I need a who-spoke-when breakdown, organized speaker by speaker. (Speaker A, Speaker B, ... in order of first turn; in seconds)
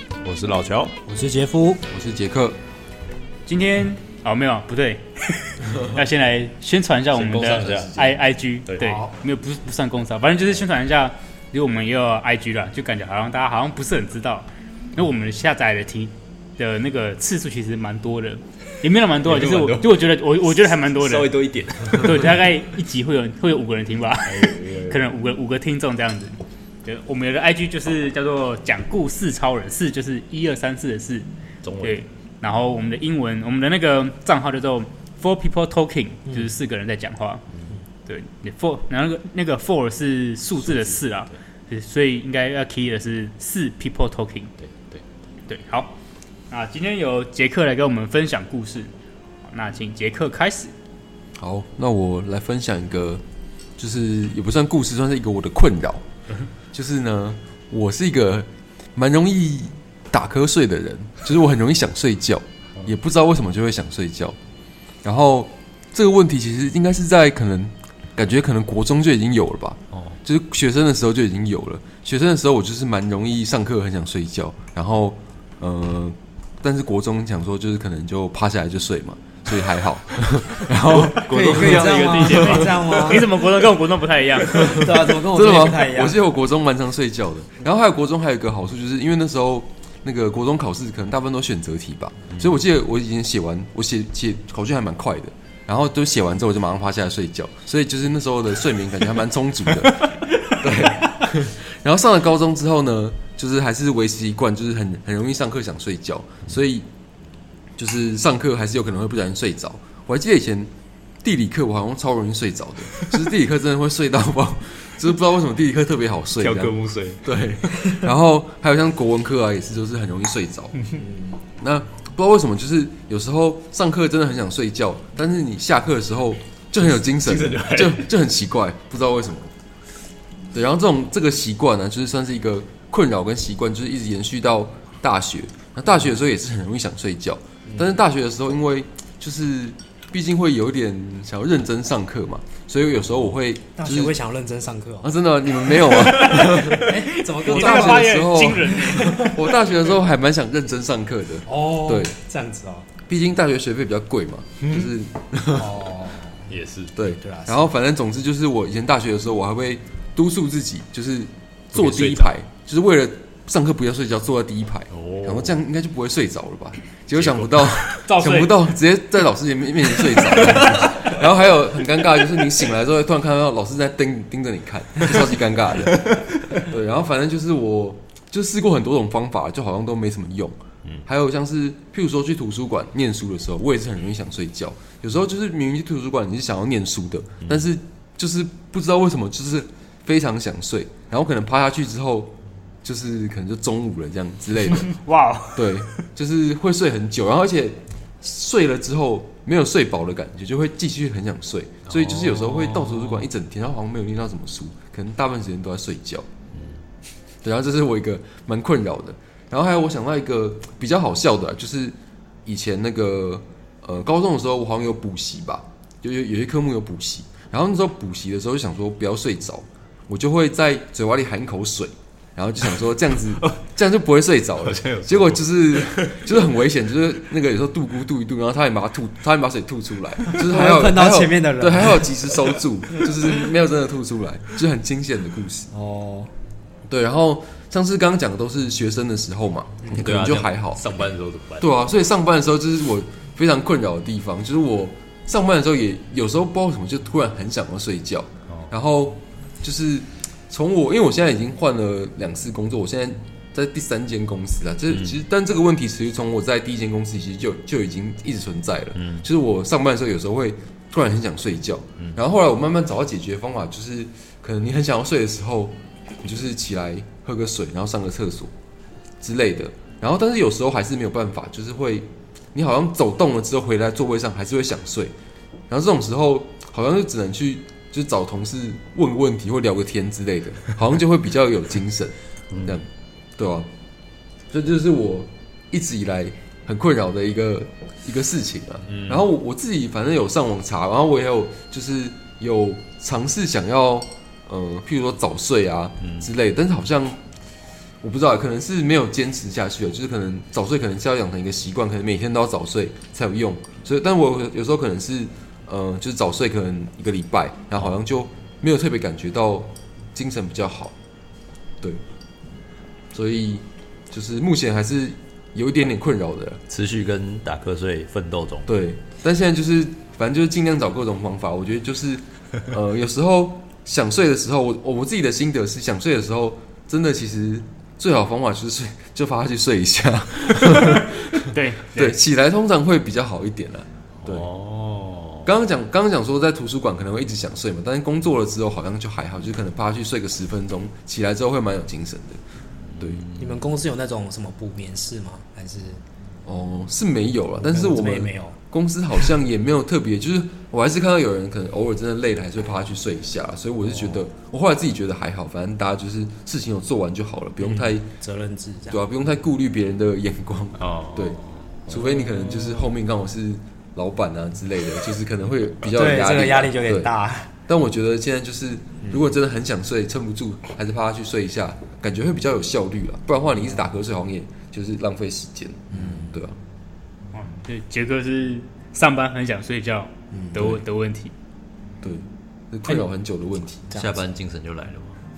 Speaker A: 0.2-1.0, 7.1-8.9, 19.2-22.4, 24.2-25.0, 31.6-31.9, 40.6-41.3, 44.6-45.0, 80.7-83.4, 116.4-117.3, 126.8-128.1, 154.6-154.9, 156.5-156.9, 161.7-162.3, 164.9-165.6, 167.1-167.8, 201.9-203.3, 206.5-206.8, 224.6-226.3, 239.9-241.7, 254.9-255.2, 258.9-259.2, 282.5-282.8, 288.9-289.3, 296.0-296.3, 316.7-318.7, 334.2-335.5, 342.9-343.6, 360.8-361.8, 383.9-385.2
Speaker B: 1.1-1.8, 8.8-9.1, 81.3-83.3, 84.6-86.2, 121.0-121.4, 143.8-145.1, 145.8-149.3, 151.4-152.9, 155.4-156.5, 157.1-157.7, 230.4-232.1, 235.7-236.3, 343.4-346.0, 347.6-348.6, 357.6-359.0, 365.9-367.5, 383.9-384.2
Speaker C: 1.9-2.6, 51.4-53.2, 53.8-56.0, 56.7-64.3, 65.0-81.9, 84.4-106.9, 107.8-110.7, 111.2-120.8, 121.6-129.5, 130.5-144.1, 145.0-152.2, 153.1-155.7, 156.9-194.9, 195.5-206.2, 207.4-235.7, 236.9-240.8, 241.6-268.5, 269.2-275.1, 275.7-283.7, 284.5-297.2, 298.0-310.9, 313.1-316.6, 318.7-334.5, 335.4-342.4, 346.4-358.1, 358.9-367.1, 367.7-376.6, 380.5-380.8, 382.0-383.9
Speaker D: 3.5-21.3, 22.0-31.3, 31.8-37.4, 38.0-44.5, 45.5-45.9, 46.5-48.9, 49.5-50.7, 82.0-84.8, 145.9-146.7, 147.4-149.4, 168.0-168.6, 194.8-195.9, 331.5-332.2, 377.3-381.3